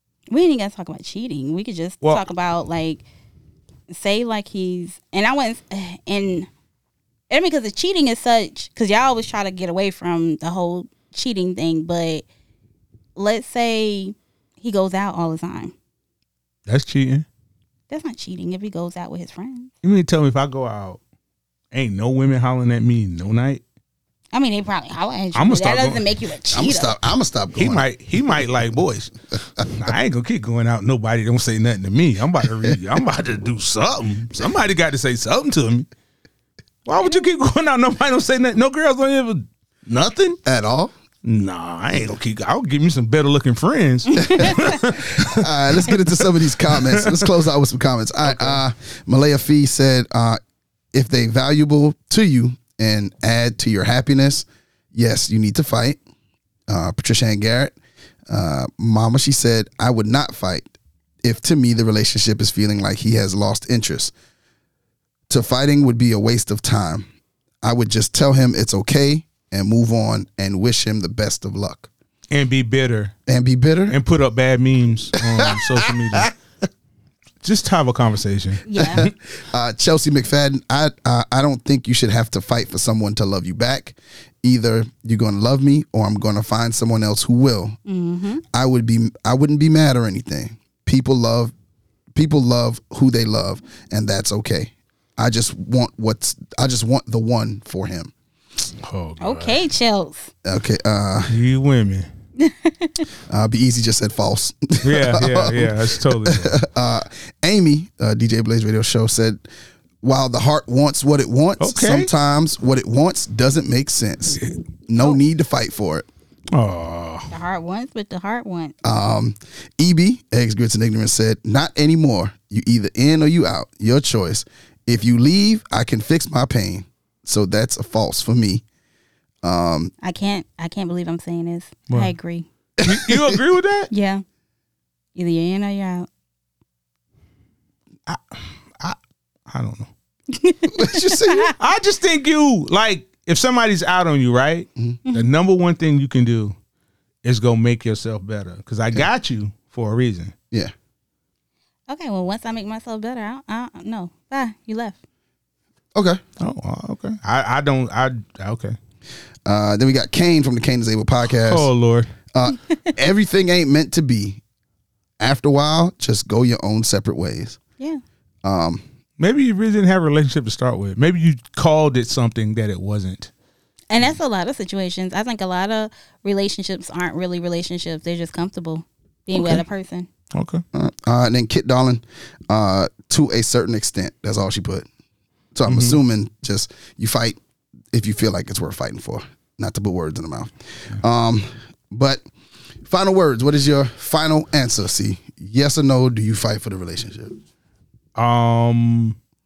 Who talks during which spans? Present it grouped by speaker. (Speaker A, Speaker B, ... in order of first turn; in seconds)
Speaker A: 0.3-3.0, 3.9-6.5, 7.3-12.2, 13.2-15.7, 17.9-19.7, 24.3-26.9, 44.1-44.8, 78.7-79.0, 87.9-88.4, 99.2-100.3, 102.4-103.0, 117.3-118.7, 130.0-132.5, 133.9-134.2, 135.2-136.1, 140.3-141.5, 151.9-155.0, 173.9-180.1
Speaker B: 16.7-17.3, 19.8-21.0, 21.7-23.6, 25.4-26.0, 27.6-35.9, 36.9-40.4, 41.2-46.2, 46.7-47.2, 48.2-48.6, 72.3-73.1, 73.9-76.3, 77.4-79.1, 98.8-99.6, 101.3-102.1, 104.8-106.6, 111.6-112.1, 116.5-117.3, 132.8-133.9, 138.1-139.0, 139.5-139.9, 141.6-146.6, 147.2-150.3, 156.4-158.8, 161.3-162.1, 169.2-173.3, 179.3-179.6, 180.3-180.6, 185.7-186.0, 198.2-199.2
Speaker C: 26.5-27.9, 40.4-40.9, 44.3-44.6, 45.2-50.4, 50.9-56.0, 56.7-57.8, 58.3-64.1, 65.3-67.0, 67.6-71.9, 73.3-74.0, 75.3-76.2, 78.8-87.8, 88.5-91.5, 92.1-98.1, 100.4-101.3, 103.3-109.5, 110.0-116.1, 118.8-128.6, 129.4-129.9, 132.8-133.4, 140.7-141.5, 156.0-156.2, 159.4-161.7, 162.3-164.4, 165.2-167.6, 168.4-168.8, 180.7-184.9, 185.6-187.4, 187.9-192.2, 192.8-197.4